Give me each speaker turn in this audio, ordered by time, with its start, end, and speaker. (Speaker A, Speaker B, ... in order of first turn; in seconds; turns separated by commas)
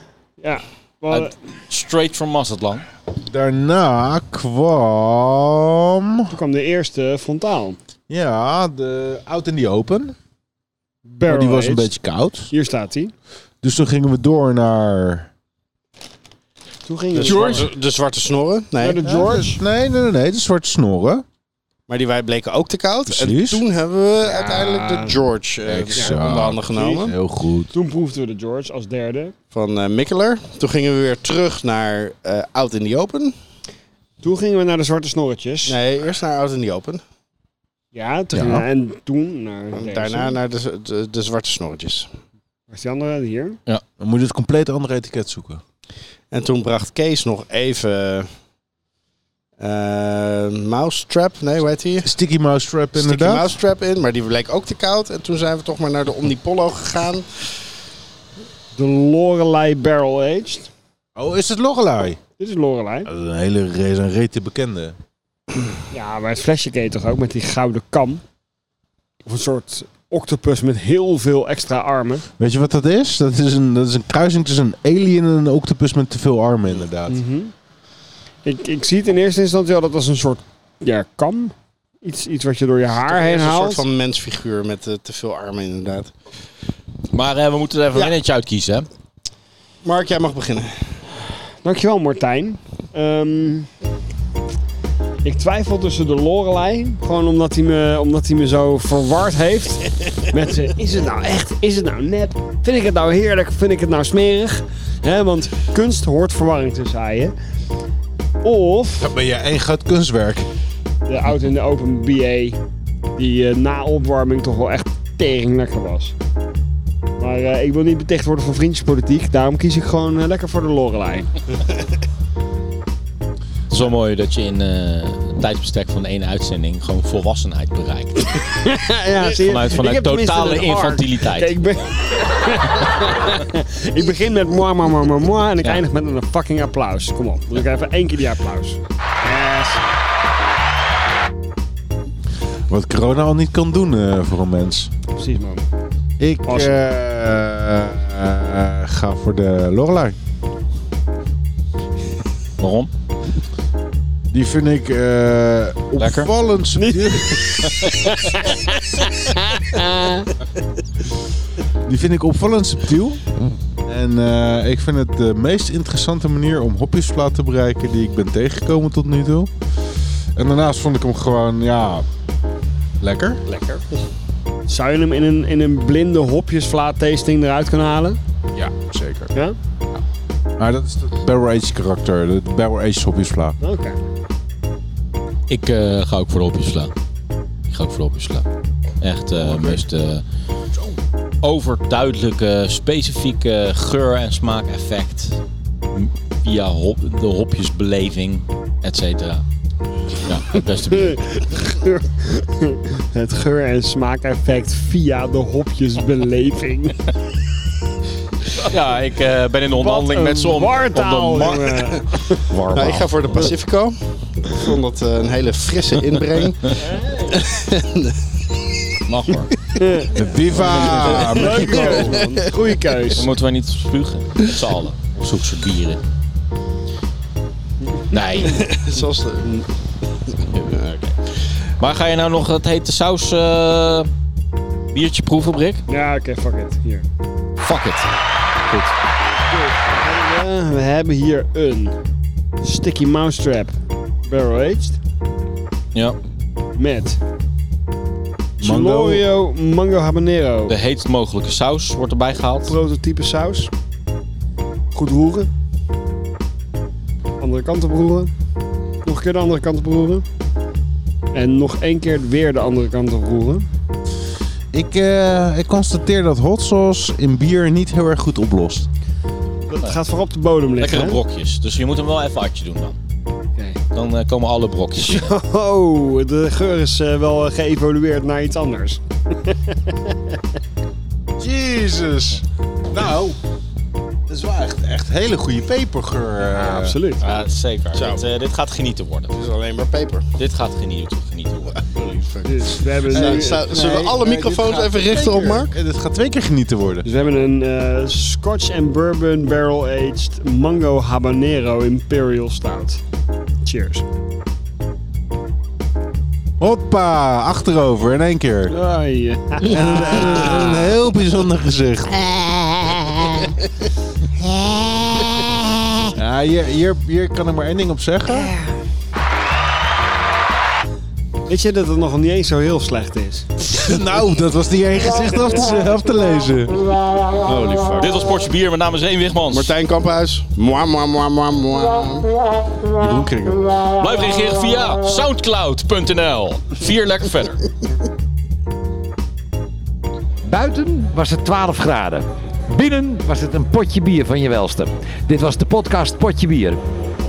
Speaker A: 0.4-1.3, Speaker B: 1.1-2.8, Speaker C: 3.2-6.3, Speaker A: 6.3-7.8, Speaker C: 8.1-10.2, Speaker A: 11.1-11.9, Speaker C: 11.3-12.5, Speaker A: 12.5-13.1, Speaker C: 13.6-15.3, Speaker A: 16.9-17.7, Speaker D: 17.1-19.0, Speaker B: 17.2-17.7, Speaker A: 18.8-19.6, Speaker C: 19.0-21.2, Speaker D: 21.9-27.1, Speaker C: 23.1-23.6, Speaker A: 24.2-25.2, Speaker C: 25.6-27.7, Speaker A: 26.7-27.1, Speaker A: 27.7-29.3, Speaker D: 29.5-33.3, Speaker A: 34.2-35.8, Speaker D: 35.6-37.0, Speaker A: 37.9-40.4, Speaker B: 38.3-38.6, Speaker D: 39.7-42.1, Speaker A: 42.7-43.6, Speaker C: 44.0-45.6, Speaker D: 46.3-48.3, Speaker D: 49.6-52.1, Speaker C: 52.0-53.5, Speaker D: 52.9-57.3, Speaker A: 58.7-60.7, Speaker C: 61.1-62.2, Speaker A: 62.4-63.1, Speaker C: 63.0-65.0, Speaker A: 65.9-68.2, Speaker A: 69.2-72.2, Speaker C: 72.4-77.2, Speaker A: 77.1-77.5, Speaker A: 78.4-83.8, Speaker D: 83.0-86.1, Speaker B: 87.1-88.9, Speaker D: 89.8-90.9, Speaker A: 91.6-93.7, Speaker A: 95.2-107.3, Speaker A: 108.4-109.1, Speaker C: 109.0-110.5, Speaker A: 111.1-112.6, Speaker A: 113.2-116.1, Speaker A: 117.2-121.3, Speaker B: 123.7-128.4, Speaker A: 128.6-139.8, Speaker B: 129.4-131.6, Speaker C: 142.7-144.9, Speaker A: 145.1-145.6, Speaker C: 146.2-150.2, Speaker A: 146.5-146.8, Speaker B: 152.6-152.9, Speaker C: 154.3-157.9, Speaker B: 156.0-156.3, Speaker A: 156.7-160.3, Speaker C: 161.8-163.2, Speaker C: 163.8-169.5, Speaker C: 170.3-172.0, Speaker C: 173.0-173.4, Speaker A: 174.7-178.2, Speaker C: 178.6-179.3, Speaker C: 180.6-183.6, Speaker A: 183.6-184.0, Speaker B: 185.5-186.9, Speaker B: 187.7-188.4, Speaker B: 189.0-190.2, Speaker C: 189.4-189.8, Speaker B: 191.4-195.4, Speaker B: 195.9-199.4, Speaker B: 200.2-201.2, Speaker A: 200.9-207.0, Speaker B: 208.5-213.5, Speaker A: 209.7-212.4, Speaker D: 212.7-218.4, Speaker A: 216.8-217.4, Speaker B: 219.1-219.6, Speaker A: 219.7-223.3, Speaker C: 220.1-222.2, Speaker B: 220.6-221.5, Speaker D: 221.9-223.1, Speaker B: 223.1-226.0, Speaker B: 228.1-228.7, Speaker D: 228.4-229.6, Speaker D: 230.2-231.2, Speaker B: 231.8-234.1, Speaker B: 234.9-235.8, Speaker A: 235.9-237.1, Speaker B: 237.6-238.1, Speaker A: 239.4-242.0, Speaker A: 242.6-245.0, Speaker A: 246.8-247.2, Speaker C: 248.6-249.2, Speaker A: 248.6-250.7, Speaker B: 250.7-252.8, Speaker A: 252.7-253.7, Speaker A: 254.9-255.5, Speaker A: 257.4-258.3, Speaker A: 259.0-260.2, Speaker A: 261.3-263.7, Speaker C: 264.7-268.9, Speaker A: 269.6-271.2, Speaker B: 270.8-272.9, Speaker A: 273.6-273.8, Speaker B: 273.9-275.2, Speaker A: 275.0-280.2, Speaker C: 281.4-283.4, Speaker C: 284.3-287.0, Speaker A: 286.5-287.2, Speaker B: 287.2-289.4, Speaker D: 287.9-288.2, Speaker D: 289.3-290.3, Speaker B: 290.4-291.8, Speaker D: 291.6-295.7, Speaker A: 292.4-293.6, Speaker C: 293.1-297.1, Speaker A: 297.0-303.0, Speaker A: 303.6-304.0, Speaker C: 306.6-308.8, Speaker A: 308.7-311.0, Speaker C: 309.6-313.2, Speaker A: 313.0-313.4, Speaker C: 316.1-318.5, Speaker A: 318.3-318.7, Speaker A: 321.5-323.5, Speaker C: 323.7-327.9, Speaker D: 327.5-328.1, Speaker B: 328.0-329.7, Speaker D: 329.5-332.3, Speaker C: 332.9-333.6, Speaker B: 333.9-337.6, Speaker E: 340.4-346.8